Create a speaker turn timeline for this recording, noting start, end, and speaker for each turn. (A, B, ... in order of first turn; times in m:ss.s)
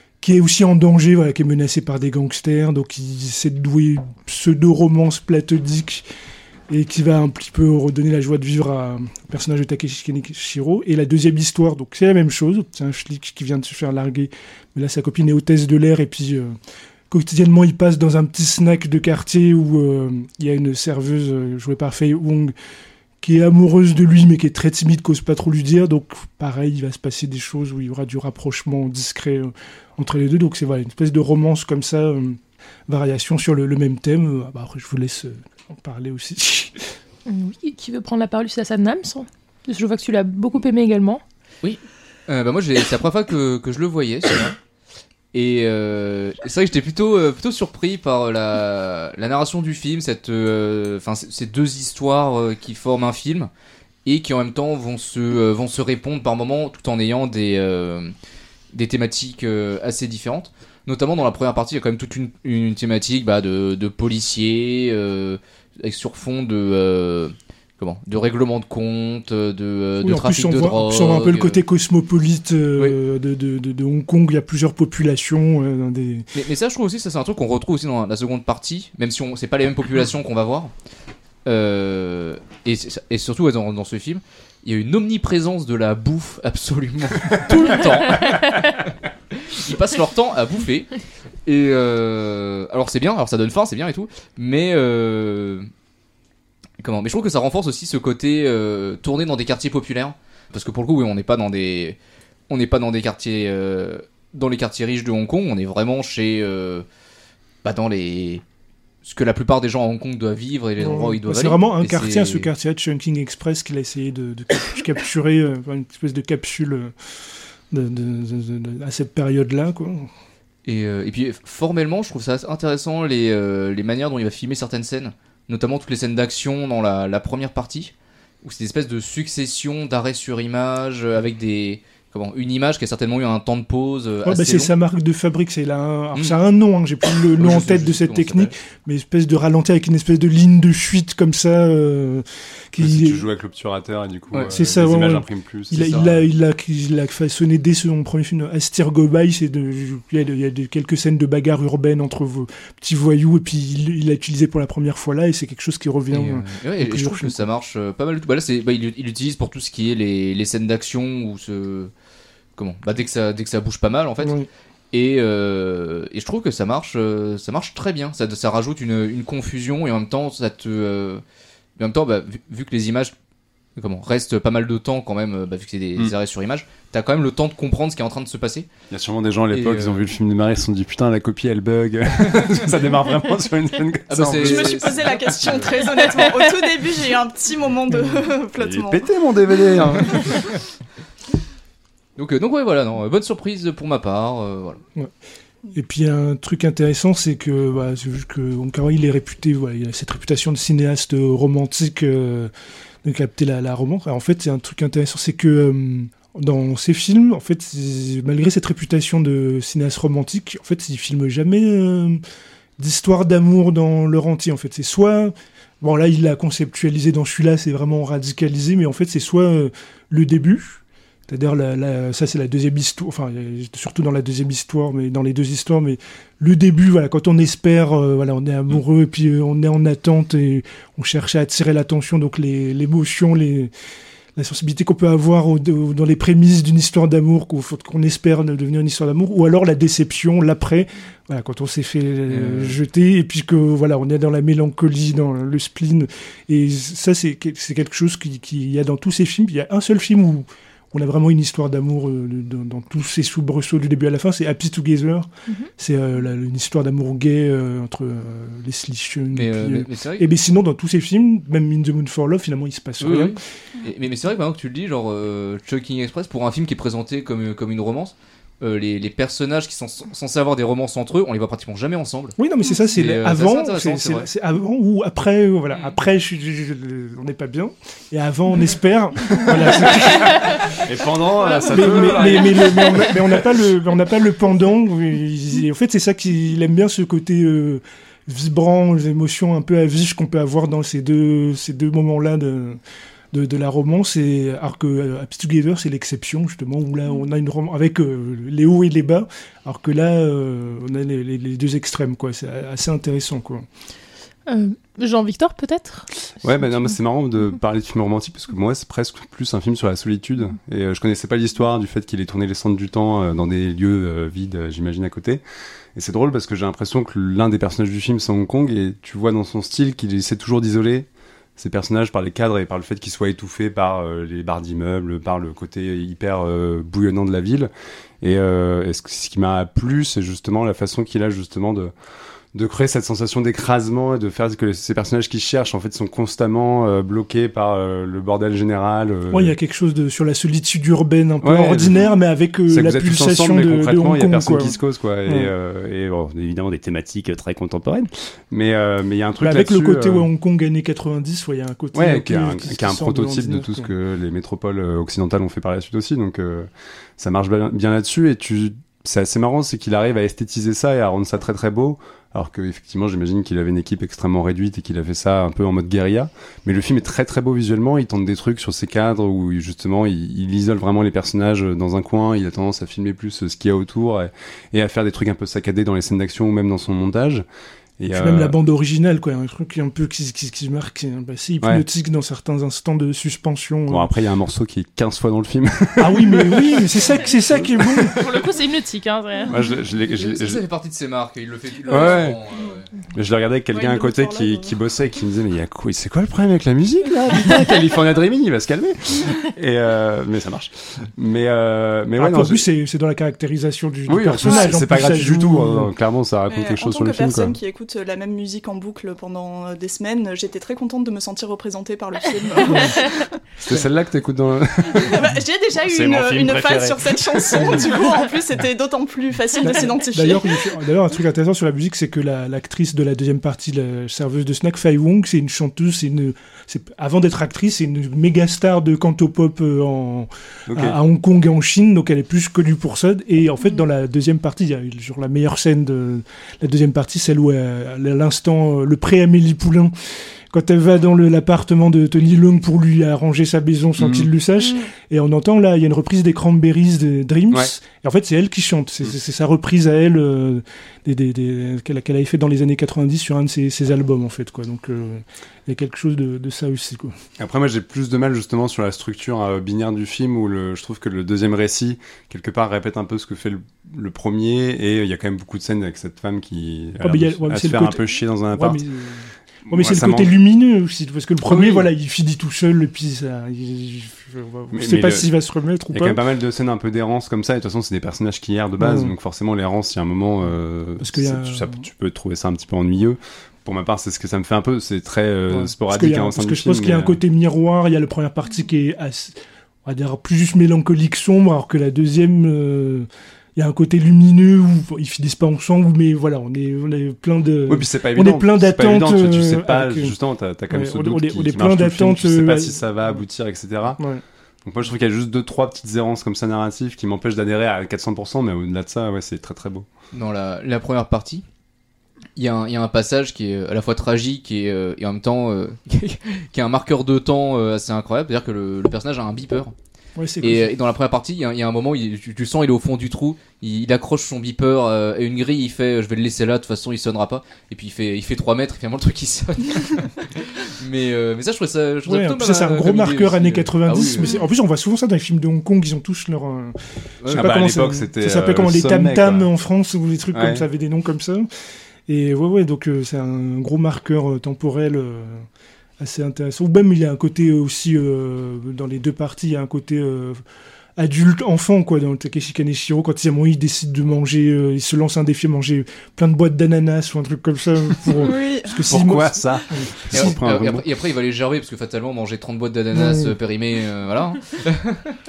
0:00.2-0:06.0 A
0:06.7-0:16.5 A
0:17.1-0:22.5 A
0:23.2-0:36.8 A
0:37.2-0:41.2 B
0:41.6-0:44.6 C
0:45.3-0:53.5 C
0:54.0-0:58.1 C
0:58.7-1:11.6 C
1:10.0-1:16.3 A
1:16.3-1:20.7 C
1:21.4-1:28.5 C
1:29.4-1:30.9 C
1:31.4-1:35.7 C
1:36.8-1:42.0 C
1:42.5-1:46.8 C
1:47.6-1:48.4 C
1:49.0-1:52.5 C
1:50.8-1:56.9 A
1:57.7-2:00.1 A
2:00.6-2:14.7 C
2:14.2-2:23.2 A
2:17.1-2:18.5 C
2:22.8-2:26.2 D
2:24.5-2:37.4 A
2:25.8-2:26.0 C
2:36.1-2:41.9 C
2:42.6-2:44.4 C
2:44.2-2:44.5 A
2:44.9-2:51.2 C
2:51.8-2:53.1 C
2:53.8-2:58.7 C
2:58.9-3:05.7 D
2:59.5-3:00.0 C
3:04.1-3:06.1 C
3:04.4-3:09.1 E
3:07.9-3:08.2 A
3:08.6-3:10.5 D
3:12.2-3:14.8 C
3:15.7-3:22.5 A
3:23.0-3:32.2 A
3:32.8-3:53.7 A
3:54.4-4:23.4 A
4:02.3-4:02.8 C
4:19.3-4:20.3 C
4:23.0-4:32.4 C
4:32.4-4:40.8 A
4:32.9-4:34.3 C
4:40.8-4:43.5 D
4:41.6-4:52.8 A
4:53.3-5:03.6 A
5:04.5-5:06.1 B
5:06.4-5:15.4 D
5:15.9-5:27.7 D
5:28.2-5:31.9 D
5:32.5-5:39.5 D
5:39.3-5:45.5 A
5:41.4-5:42.1 D
5:42.7-5:50.3 D
5:49.4-5:53.9 A
5:51.9-6:17.4 D
6:18.0-6:18.5 D
6:18.1-6:24.1 A
6:23.9-6:28.4 D
6:26.0-6:28.1 A
6:28.1-6:29.6 B
6:29.5-6:30.6 D
6:30.1-6:32.9 C
6:31.9-6:32.4 D
6:33.1-6:42.6 D
6:33.7-6:34.7 E
6:42.2-6:45.9 A
6:44.1-6:47.6 D
6:46.5-6:53.3 E
6:52.6-6:53.0 A
6:52.6-6:53.1 B
6:53.6-6:55.3 D
6:55.0-7:00.6 E
6:55.8-6:57.9 D
6:59.6-7:19.9 A
7:10.7-7:11.0 D
7:20.5-7:37.1 A
7:24.0-7:24.3 D
7:24.6-7:24.9 E
7:37.4-7:48.8 D
7:47.0-7:56.2 A
7:49.7-7:50.3 D
7:51.4-7:51.9 D
7:54.7-7:55.3 D
7:55.9-8:07.2 D
7:58.8-7:59.1 A
8:01.0-8:01.8 A
8:05.5-8:20.1 A
8:17.7-8:24.0 D
8:20.7-8:23.2 A
8:24.6-8:29.8 D
8:30.1-8:31.4 C
8:32.4-8:39.7 C
8:40.2-8:40.7 A
8:40.4-8:54.4 C
8:52.0-9:01.5 A
8:57.2-8:57.5 C
8:57.3-8:59.5 D
9:00.3-9:00.6 D
9:02.1-9:05.4 A
9:06.0-9:10.4 A
9:11.0-9:20.3 A
9:18.1-9:18.9 E
9:18.9-9:20.8 D
9:20.1-9:25.0 C
9:22.9-9:23.3 A